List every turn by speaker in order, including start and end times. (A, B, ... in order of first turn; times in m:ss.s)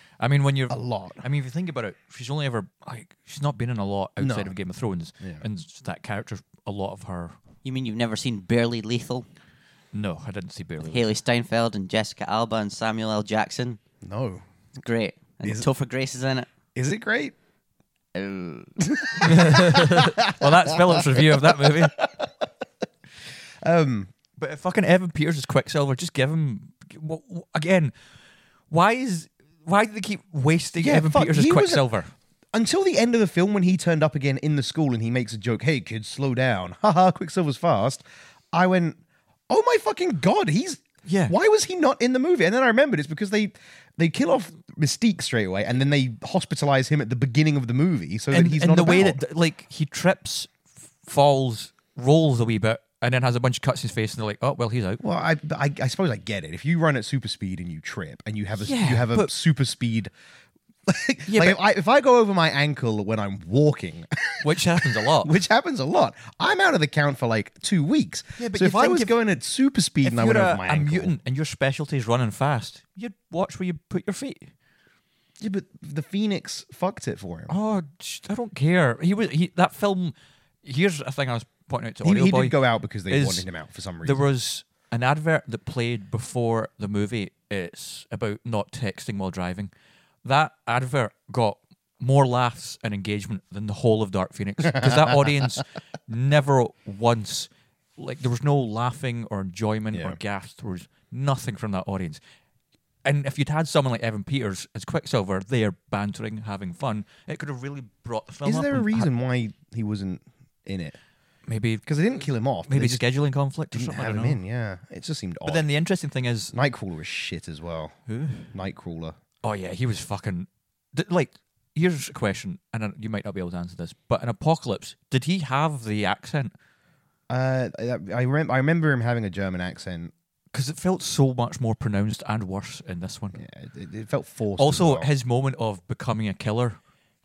0:00.2-0:07.4 A
0:00.7-0:01.2 B
0:04.2-0:04.5 B
0:05.2-0:05.4 B
0:07.6-0:09.2 C
0:09.9-0:11.1 A
0:10.9-0:13.8 C
0:14.0-0:14.4 B
0:14.8-0:16.5 C
0:16.7-0:17.3 B
0:18.2-0:18.7 C
0:18.8-0:22.4 B
0:19.2-0:22.0 A
0:23.6-0:24.1 B
0:24.4-0:27.9 A
0:28.7-0:32.1 A
0:30.8-0:31.8 B
0:32.5-0:49.2 B
0:41.0-0:41.3 A
0:48.3-0:55.0 A
0:55.0-1:00.1 B
0:58.6-0:59.3 A
1:00.9-1:11.1 B
1:01.3-1:01.6 A
1:04.4-1:05.4 A
1:08.4-1:09.1 A
1:10.0-1:14.5 A
1:15.4-1:17.5 B
1:17.5-1:23.4 A
1:22.0-1:24.2 B
1:24.0-1:29.7 A
1:30.2-1:42.2 A
1:34.7-1:35.0 B
1:39.9-1:40.2 B
1:43.0-1:49.1 A
1:48.4-1:51.0 B
1:51.4-1:51.8 A
1:51.8-1:53.0 B
1:52.7-1:54.4 A
1:53.7-1:55.7 B
1:55.4-1:56.5 A
1:56.5-1:58.0 B
1:58.1-1:58.5 A
1:58.5-1:59.2 B
1:59.4-2:06.5 A
2:07.3-2:10.1 B
2:10.5-2:13.4 A
2:13.3-2:15.1 B
2:14.6-2:16.8 A